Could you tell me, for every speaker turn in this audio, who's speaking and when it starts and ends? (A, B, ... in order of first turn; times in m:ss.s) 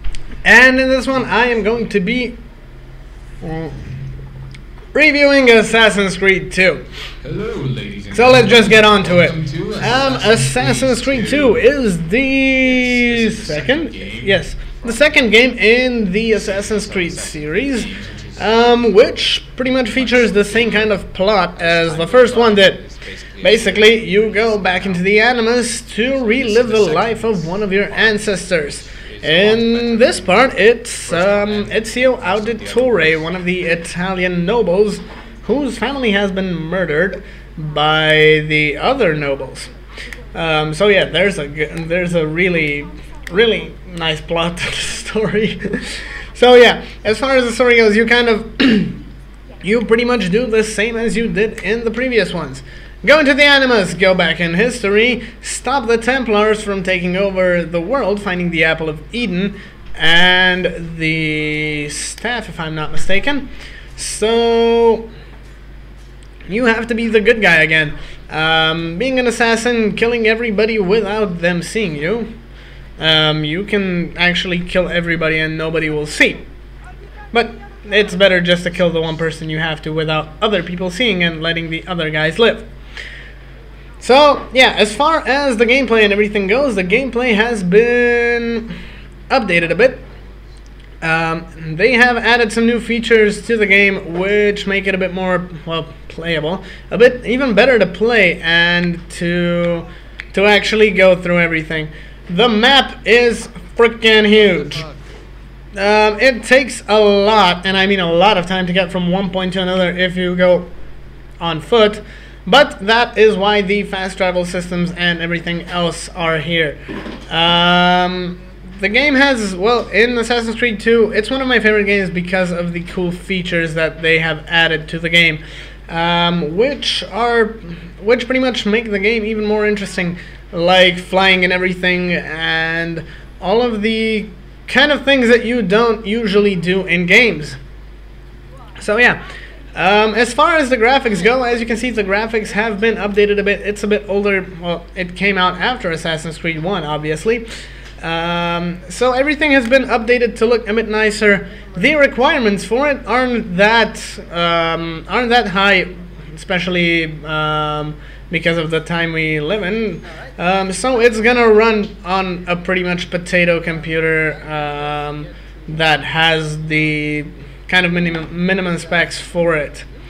0:00.4-0:02.4 A
0:03.4-0:03.7 A
0:04.9-0:06.8 A
0:07.2-0:11.6 B
0:08.1-0:22.8 A
0:12.6-0:15.3 B
0:16.3-0:18.9 B
0:19.8-0:21.0 B
0:21.5-0:25.1 B
0:23.4-0:39.7 A
0:26.0-0:33.4 B
0:40.3-0:49.0 A
0:49.6-1:05.1 A
1:06.5-1:12.3 A
1:13.0-1:16.4 A
1:17.3-1:22.7 A
1:24.0-1:28.8 A
1:29.3-1:30.0 A
1:31.0-1:44.8 A
1:44.4-1:45.0 B
1:45.7-1:50.7 A
1:51.4-2:17.6 A
2:18.8-2:19.2 A
2:19.7-2:27.4 A
2:28.0-2:49.9 A